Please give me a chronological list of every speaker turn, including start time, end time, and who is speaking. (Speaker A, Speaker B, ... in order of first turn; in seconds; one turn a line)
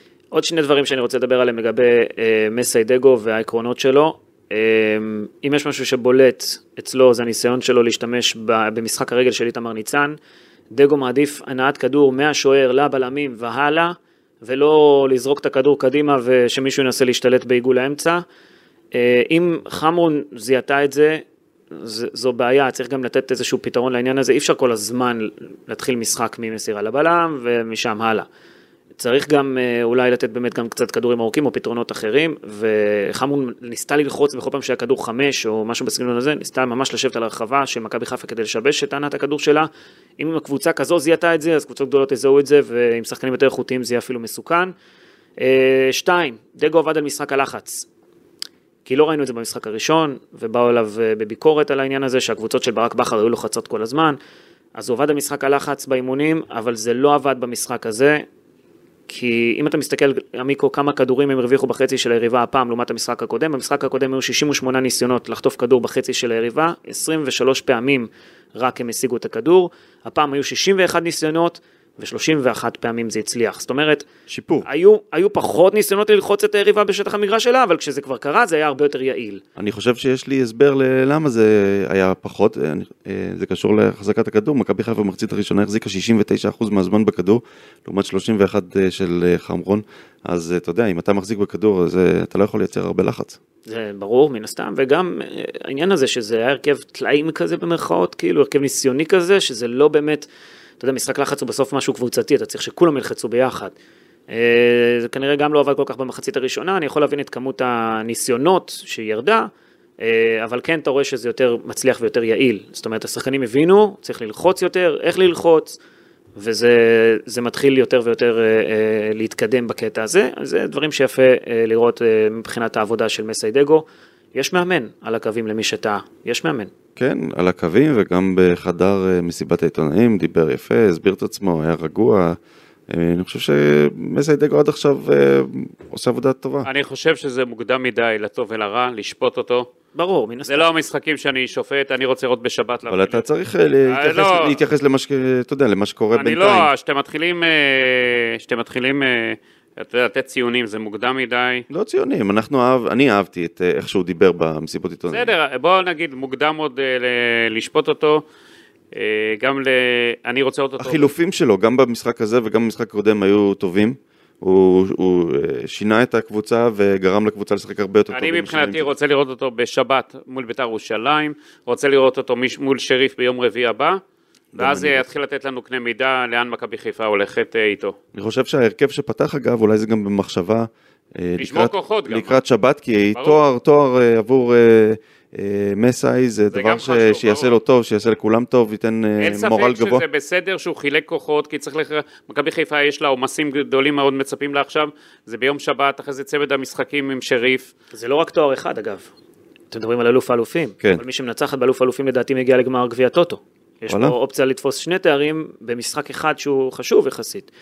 Speaker A: 0.3-10.2
Speaker A: 10.7-18.2
Speaker A: 18.9-28.3
Speaker A: 29.0-44.7
Speaker A: 45.4-47.9
Speaker A: 48.9-54.2
Speaker A: 54.8-58.2
Speaker A: 59.1-74.1
Speaker B: 74.3-74.7
Speaker A: 74.7-79.4
Speaker B: 79.6-93.4
Speaker A: 93.7-100.3
Speaker A: 100.8-103.8
Speaker A: 104.3-115.8
Speaker A: 116.4-126.7
Speaker B: 127.0-132.4
Speaker B: 132.9-136.7
Speaker C: 136.7-139.7
Speaker A: 139.9-140.7
Speaker C: 140.5-143.2
Speaker B: 142.9-146.7
Speaker C: 143.9-144.6
Speaker C: 146.1-151.7
Speaker B: 151.7-155.3
Speaker C: 155.1-158.2
Speaker C: 158.9-161.1
Speaker B: 160.8-168.9
Speaker C: 168.1-174.0
Speaker B: 174.5-175.1
Speaker C: 174.6-178.0
Speaker B: 178.1-190.0
Speaker C: 181.4-182.4
Speaker C: 183.2-183.4
Speaker C: 186.5-187.6
Speaker C: 189.2-197.7
Speaker A: 197.9-199.1
Speaker A: 199.7-207.5
Speaker B: 203.9-204.2